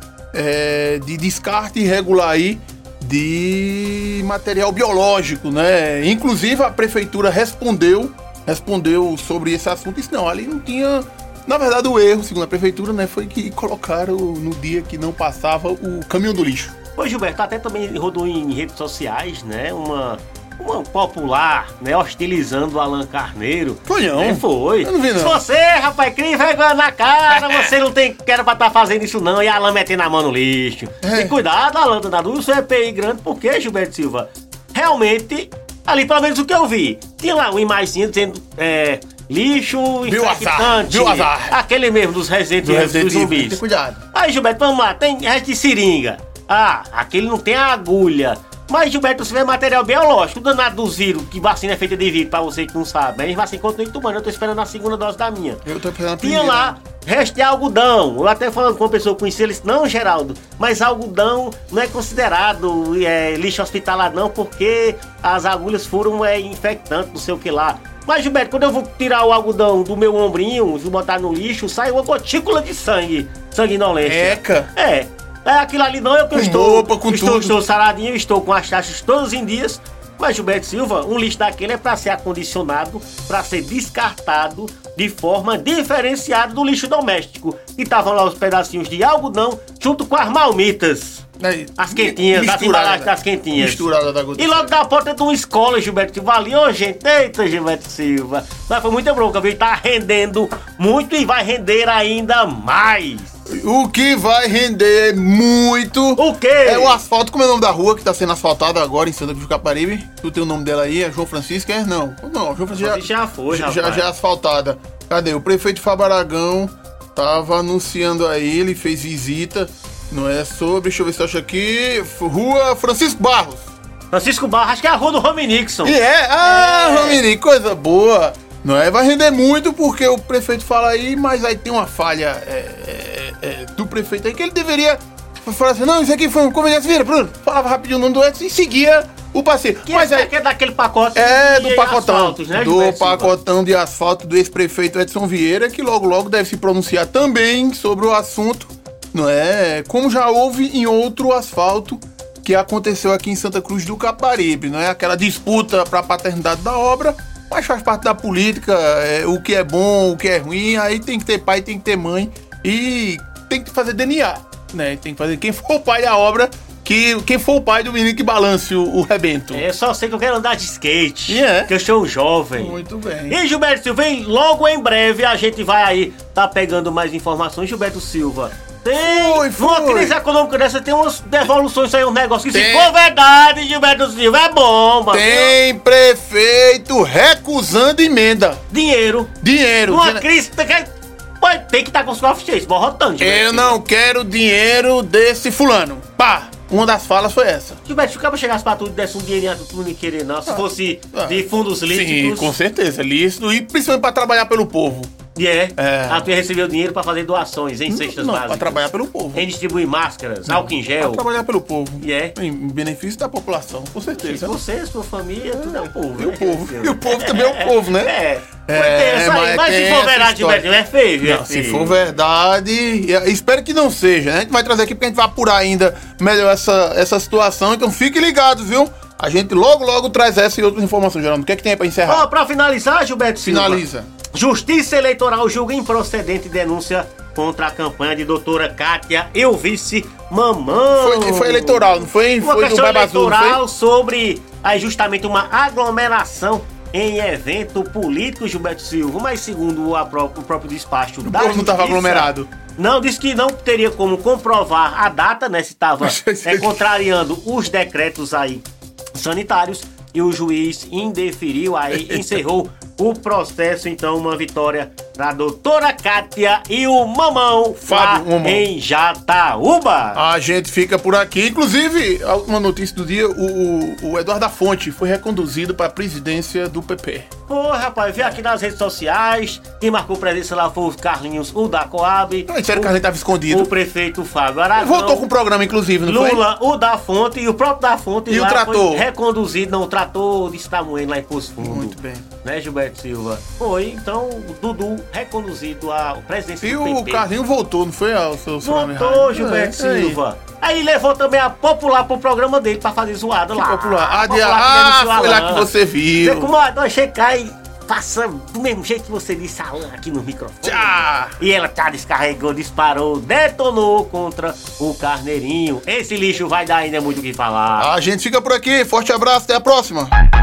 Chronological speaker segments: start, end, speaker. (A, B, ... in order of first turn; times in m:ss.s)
0:00.3-0:16.7 A
0:17.0-0:43.6 B
0:23.8-0:25.4 A
0:31.0-0:31.4 A
0:40.0-0:41.6 A
0:42.6-0:44.0 A
0:44.1-0:55.6 B
0:55.6-0:56.8 A
0:56.2-1:31.2 B
1:14.0-1:14.7 A
1:16.3-1:17.6 A
1:31.4-1:34.7 A
1:31.8-1:43.3 B
1:43.5-2:03.7 A
1:46.2-1:47.0 B
1:52.8-1:54.1 B
2:04.1-2:07.2 B
2:05.8-2:20.3 A
2:19.8-2:23.3 B
2:21.1-2:49.6 A
2:49.5-3:05.6 B
2:51.3-2:51.7 A
2:52.5-2:53.4 A
2:59.0-3:00.2 A
3:02.5-3:02.9 A
3:05.1-3:08.6 A
3:08.7-3:09.3 B
3:09.4-3:10.3 A
3:09.9-3:13.8 B
3:13.2-3:17.8 A
3:17.8-3:22.6 B
3:20.5-3:25.1 A
3:25.3-3:31.3 B
3:25.8-3:26.3 A
3:27.9-3:29.5 A
3:30.5-3:34.6 A
3:32.0-3:32.4 B
3:34.2-3:42.0 B
3:35.5-3:38.1 A
3:38.6-3:40.6 A
3:41.2-3:52.3 A
3:52.1-4:30.2 B
3:53.4-3:54.1 A
4:00.8-4:03.6 A
4:11.2-4:12.5 A
4:16.0-4:16.8 A
4:21.9-4:22.4 A
4:27.8-4:28.7 A
4:30.1-4:37.3 A
4:37.5-4:45.3 B
4:42.5-4:43.7 A
4:44.8-4:46.4 A
4:46.0-4:57.3 B
4:48.3-4:49.0 A
4:51.6-4:52.2 A
4:56.6-5:00.2 A
4:58.6-5:17.9 B
5:03.5-5:06.5 A
5:10.6-5:11.4 A
5:17.8-5:20.1 A